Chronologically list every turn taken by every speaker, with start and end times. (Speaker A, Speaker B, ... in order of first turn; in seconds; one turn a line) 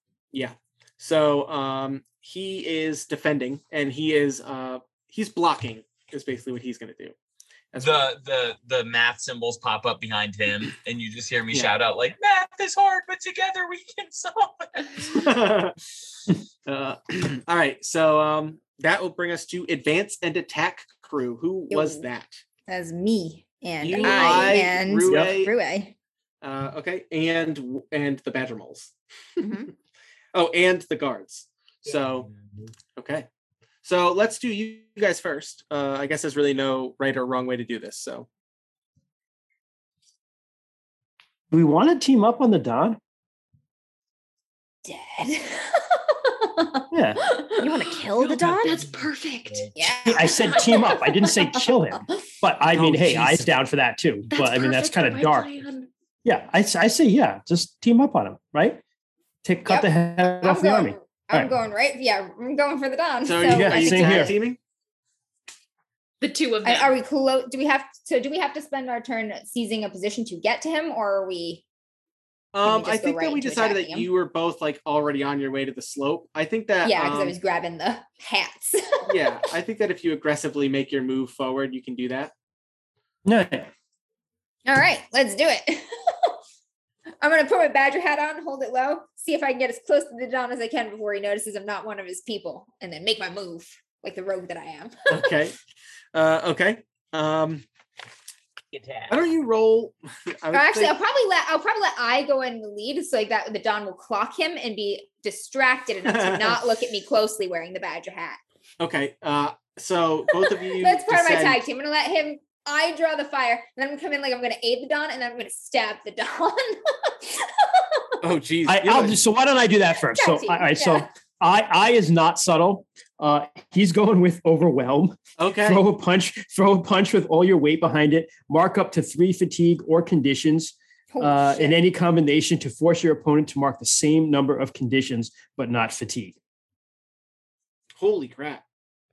Speaker A: 0.3-7.2
Speaker A: 7.7-8.1
Speaker B: 7.8-15.3
Speaker C: 14.8-15.1
Speaker A: 15.1-15.8
Speaker A: 16.7-22.4
Speaker D: 21.7-22.1
Speaker D: 22.7-25.9
Speaker A: 23.8-25.5
Speaker E: 24.0-24.5
Speaker F: 25.1-25.3
Speaker A: 26.4-28.9
Speaker E: 29.4-29.7
Speaker A: 30.3-32.3
Speaker B: 31.9-32.7
Speaker A: 33.0-33.3
Speaker A: 33.8-38.3
Speaker F: 41.5-43.0
Speaker D: 44.9-47.7
Speaker F: 46.9-47.2
Speaker E: 47.6-48.9
Speaker C: 48.2-51.2
Speaker B: 48.6-49.7
Speaker D: 49.8-51.4
Speaker F: 50.1-55.5
Speaker A: 52.7-53.5
Speaker C: 54.3-55.9
Speaker F: 56.2-58.8
Speaker F: 59.4-61.5
Speaker D: 59.7-64.3
Speaker A: 63.3-64.6
Speaker F: 63.4-64.4
Speaker C: 66.2-66.9
Speaker D: 66.6-71.6
Speaker A: 72.5-77.4
Speaker D: 72.6-74.1
Speaker D: 76.8-79.1
Speaker A: 79.1-82.3
Speaker F: 83.2-83.7
Speaker D: 84.7-86.3
Speaker D: 87.2-95.3
Speaker A: 95.1-95.6
Speaker A: 96.1-97.7
Speaker B: 98.7-99.2
Speaker A: 99.1-101.0
Speaker D: 100.5-108.4
Speaker A: 106.1-106.6
Speaker A: 108.8-111.6
Speaker D: 110.8-118.2
Speaker A: 118.2-119.2
Speaker F: 118.7-136.4
Speaker D: 120.1-121.1
Speaker A: 125.4-125.8
Speaker D: 131.1-131.8
Speaker A: 138.0-138.6